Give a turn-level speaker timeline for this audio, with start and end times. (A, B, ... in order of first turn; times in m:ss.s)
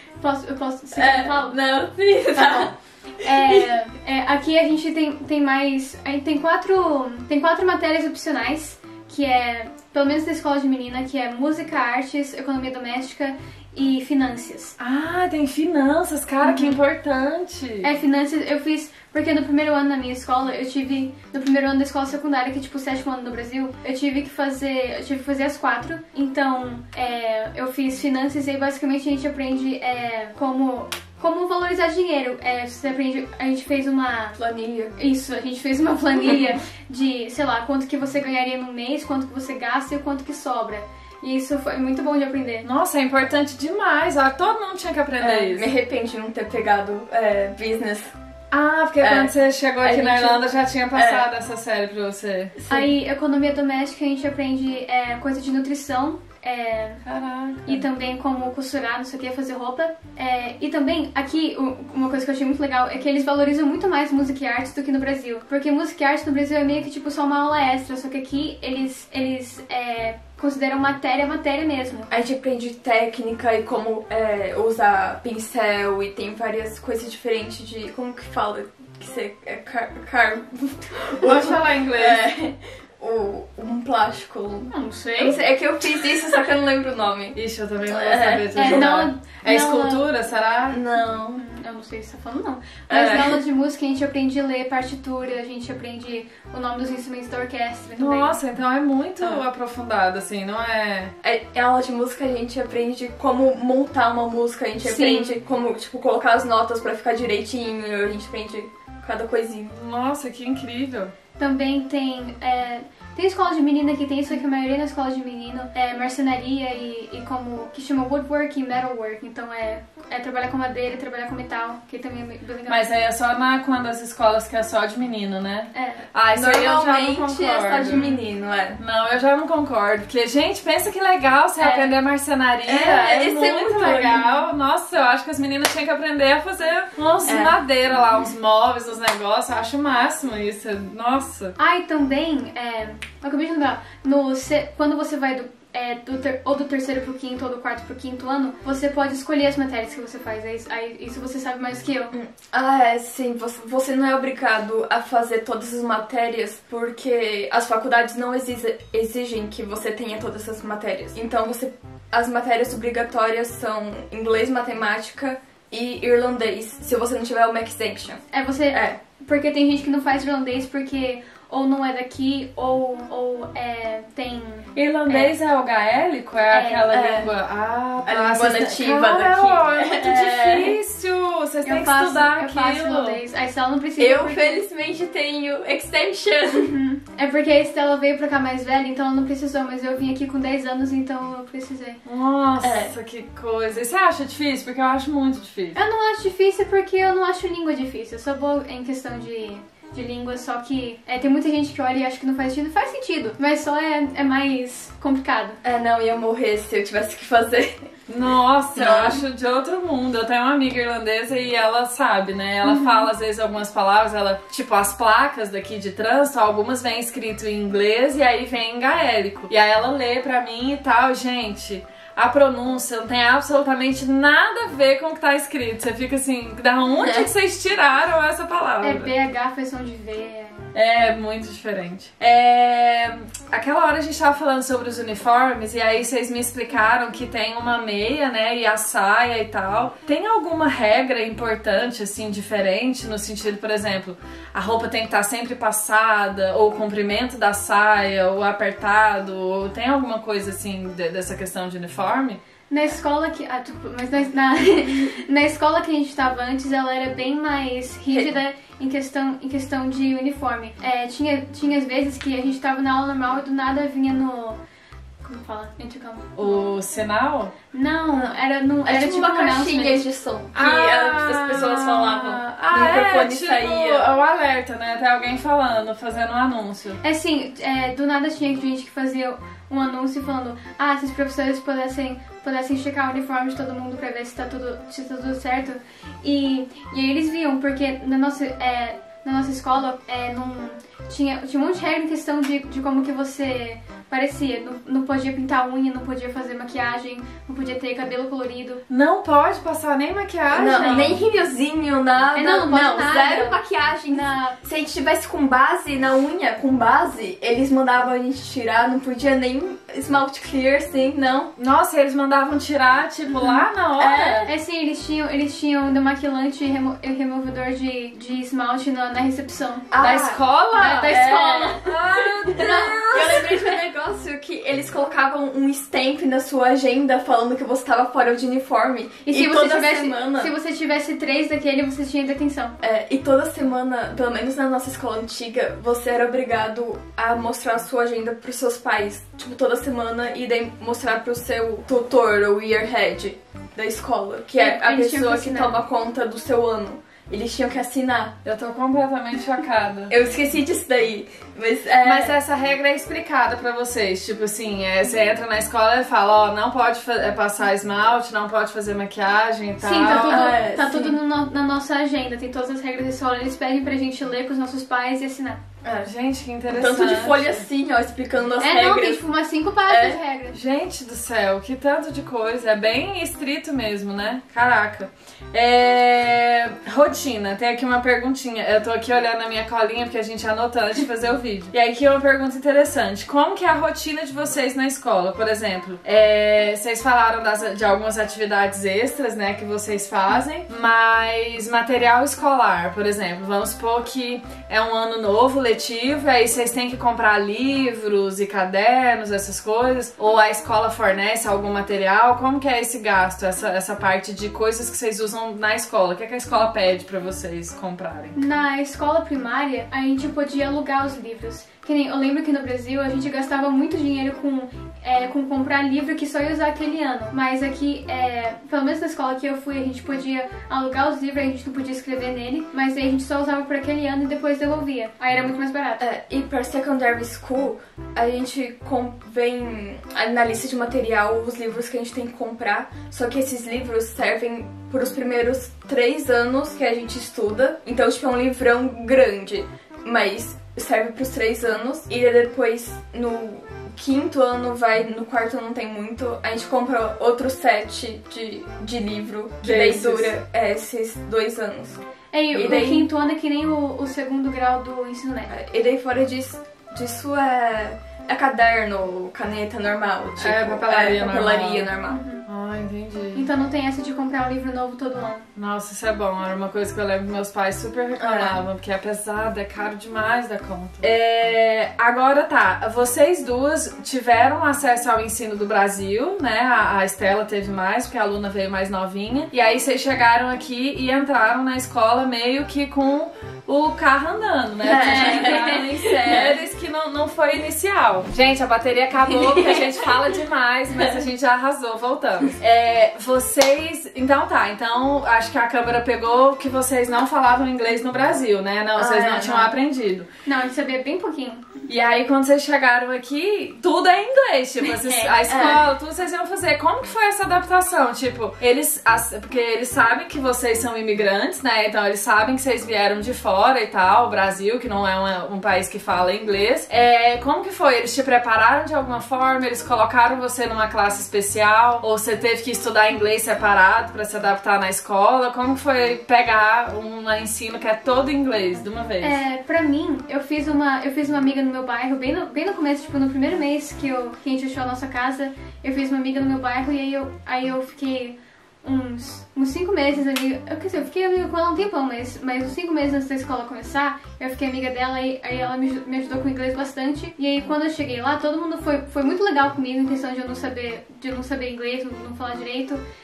0:00.2-0:01.6 A
0:00.9-0:03.7 B
0:03.2-0:14.8 A
0:14.8-0:17.9 C
0:16.4-0:16.8 A
0:17.8-0:34.4 A
0:34.4-0:35.0 B
0:35.0-0:42.7 A
0:42.6-0:45.7 C
0:45.2-0:48.1 B
0:48.5-0:52.6 C
0:49.0-0:51.3 B
0:52.6-0:52.9 B
0:52.7-0:57.0 A
0:57.0-0:57.8 C
0:57.7-1:12.1 A
1:12.1-1:28.9 B
1:21.2-1:22.3 C
1:24.7-1:25.4 A
1:27.4-1:30.8 C
1:28.6-1:30.1 A
1:30.7-1:31.4 B
1:31.4-1:38.4 A
1:32.9-1:33.4 B
1:38.0-1:41.1 C
1:41.2-1:49.8 B
1:44.8-1:45.4 A
1:49.7-1:51.1 C
1:51.4-2:02.9 A
2:02.7-2:08.1 C
2:05.7-2:06.0 A
2:06.4-2:08.8 B
2:08.8-2:21.6 C
2:11.6-2:12.0 A
2:12.6-2:14.3 B
2:17.3-2:17.6 B
2:21.6-2:32.1 A
2:32.1-2:49.0 B
2:48.3-2:55.3 A
2:54.8-3:03.2 C
2:56.5-2:56.9 A
2:56.9-2:57.3 B
2:58.0-3:00.8 B
3:01.6-3:04.6 A
3:04.0-3:06.8 B
3:06.6-3:12.0 A
3:12.0-3:15.8 C
3:12.6-3:12.9 B
3:15.8-3:25.6 A
3:25.6-3:27.9 B
3:28.1-3:49.1 C
3:28.8-3:29.2 B
3:32.6-3:33.1 A
3:47.0-3:47.3 B
3:48.8-3:50.7 A
3:50.7-4:12.4 C
4:12.7-4:24.6 A
4:25.2-4:26.7 A
4:26.4-4:27.5 C
4:27.7-4:30.0 A
4:28.1-4:34.1 B
4:30.5-4:37.0 C
4:37.0-4:58.8 A
4:58.9-5:01.2 C
5:00.5-5:11.5 B
5:00.8-5:01.1 A
5:02.4-5:03.6 A
5:04.1-5:04.6 A
5:11.6-5:14.5 C
5:13.4-5:14.5 B
5:14.5-5:19.9 A
5:19.9-5:20.4 B
5:20.0-5:23.8 C
5:20.8-5:21.8 A
5:21.0-5:30.5 B
5:29.3-5:32.8 A
5:32.8-5:48.4 B
5:44.6-5:45.8 A
5:48.4-5:50.2 C
5:50.1-5:52.4 B
5:52.0-6:00.5 C
5:59.8-6:05.6 A
6:00.1-6:01.2 B
6:05.8-6:06.1 B
6:06.0-6:07.6 C
6:06.7-6:09.2 B
6:08.6-6:10.6 A
6:09.9-6:10.2 B
6:10.5-6:48.4 C
6:48.4-7:06.0 A
7:06.0-7:32.0 B
7:29.6-7:30.3 C
7:32.3-7:35.5 A
7:32.5-7:33.1 B
7:35.5-7:42.2 B
7:40.4-7:41.9 C
7:42.1-7:42.4 A
7:42.5-7:43.5 C
7:43.4-7:45.5 A
7:45.6-8:20.3 C
7:48.2-7:48.6 B
8:04.8-8:06.6 B
8:05.0-8:05.8 A
8:09.3-8:09.9 B
8:19.0-8:19.8 B
8:20.5-8:21.8 A
8:21.9-8:49.4 C
8:24.8-8:25.7 A
8:25.5-8:25.8 B
8:49.2-9:13.0 A